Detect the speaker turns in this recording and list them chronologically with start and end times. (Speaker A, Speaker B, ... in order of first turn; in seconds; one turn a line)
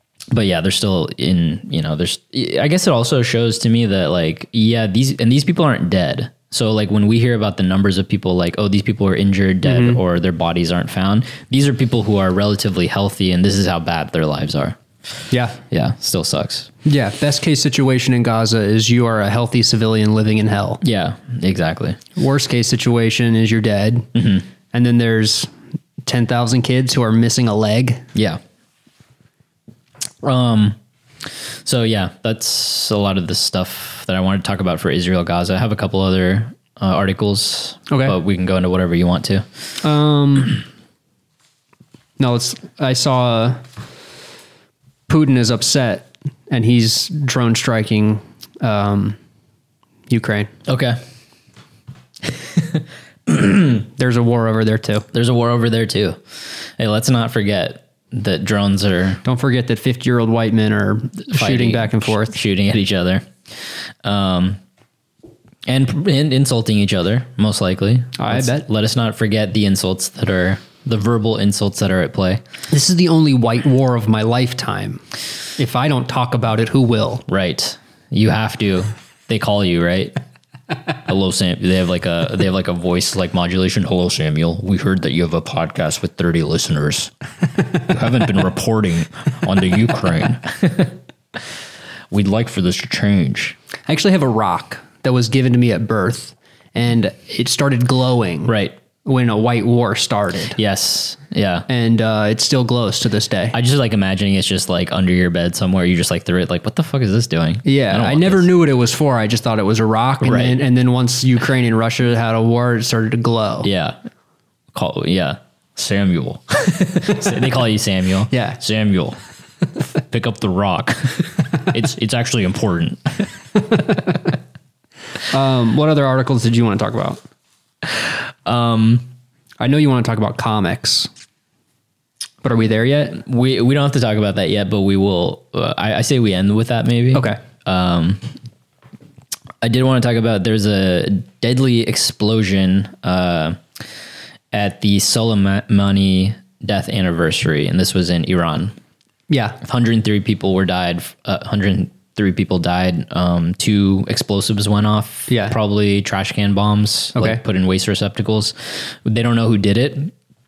Speaker A: 0.3-14.8
Speaker B: 9.6-10.0
Speaker B: 15.3-15.6
Speaker A: 15.7-16.7
Speaker B: 16.9-20.8
Speaker A: 20.8-22.0
Speaker B: 22.2-24.1
Speaker A: 24.1-24.5
Speaker B: 24.7-25.5
Speaker B: 26.1-28.1
Speaker A: 28.1-28.4
Speaker A: 30.2-30.8
Speaker A: 31.3-39.5
Speaker B: 37.9-38.2
Speaker B: 39.8-40.6
Speaker B: 42.2-43.6
Speaker B: 45.1-49.2
Speaker B: 50.1-50.5
Speaker A: 50.7-51.0
Speaker A: 52.3-53.8
Speaker B: 53.8-55.1
Speaker A: 55.1-56.2
Speaker A: 56.8-59.2
Speaker B: 59.2-62.4
Speaker A: 61.3-64.6
Speaker A: 65.7-72.4
Speaker B: 68.2-68.7
Speaker B: 72.7-75.0
Speaker B: 75.6-77.2
Speaker A: 77.3-80.2
Speaker A: 81.1-87.1
Speaker A: 87.7-90.9
Speaker A: 92.1-93.6
Speaker B: 93.9-100.6
Speaker A: 98.5-98.8
Speaker A: 100.6-101.7
Speaker B: 101.7-103.6
Speaker A: 103.5-108.5
Speaker B: 107.7-113.7
Speaker A: 110.2-110.6
Speaker A: 113.6-114.0
Speaker A: 114.7-119.2
Speaker B: 118.3-118.6
Speaker A: 120.1-124.0
Speaker B: 125.3-127.2
Speaker A: 127.9-129.1
Speaker B: 129.6-131.1
Speaker B: 132.4-133.2
Speaker A: 133.1-138.2
Speaker B: 137.1-137.4
Speaker A: 139.6-143.6
Speaker A: 144.5-148.7
Speaker B: 149.3-149.6
Speaker A: 149.6-160.1
Speaker B: 155.3-155.6
Speaker B: 157.2-157.4